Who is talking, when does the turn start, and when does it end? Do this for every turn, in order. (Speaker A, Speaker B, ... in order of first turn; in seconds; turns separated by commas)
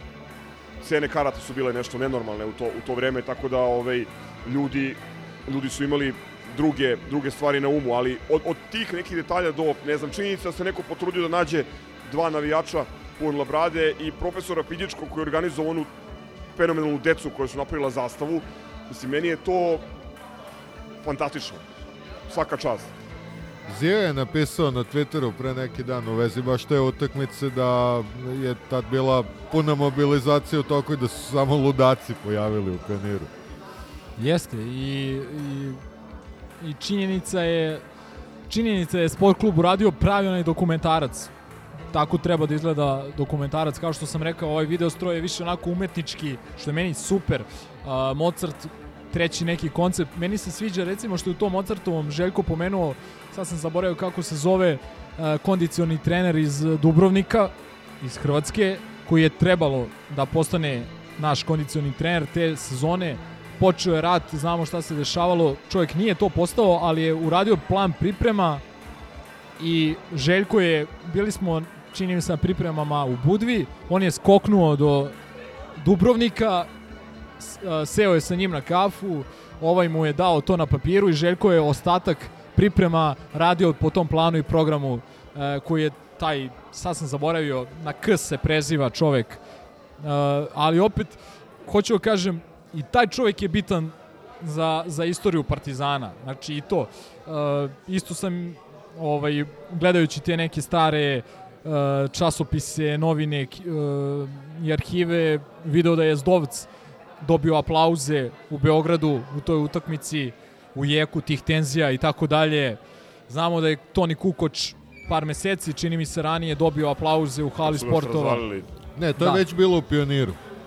Speaker A: 0.8-15.9, Speaker A: 16.6-19.8, Speaker A: 21.0-21.6, Speaker A: 22.3-22.9, Speaker B: 23.7-33.3, Speaker C: 34.2-35.8, Speaker C: 36.6-37.8, Speaker C: 38.5-41.3, Speaker C: 41.9-68.6, Speaker C: 69.6-75.2, Speaker C: 75.8-76.7, Speaker C: 77.4-89.4, Speaker C: 90.0-106.7, Speaker C: 107.2-118.4, Speaker A: 117.6-118.7, Speaker B: 119.0-120.4, Speaker C: 119.2-119.4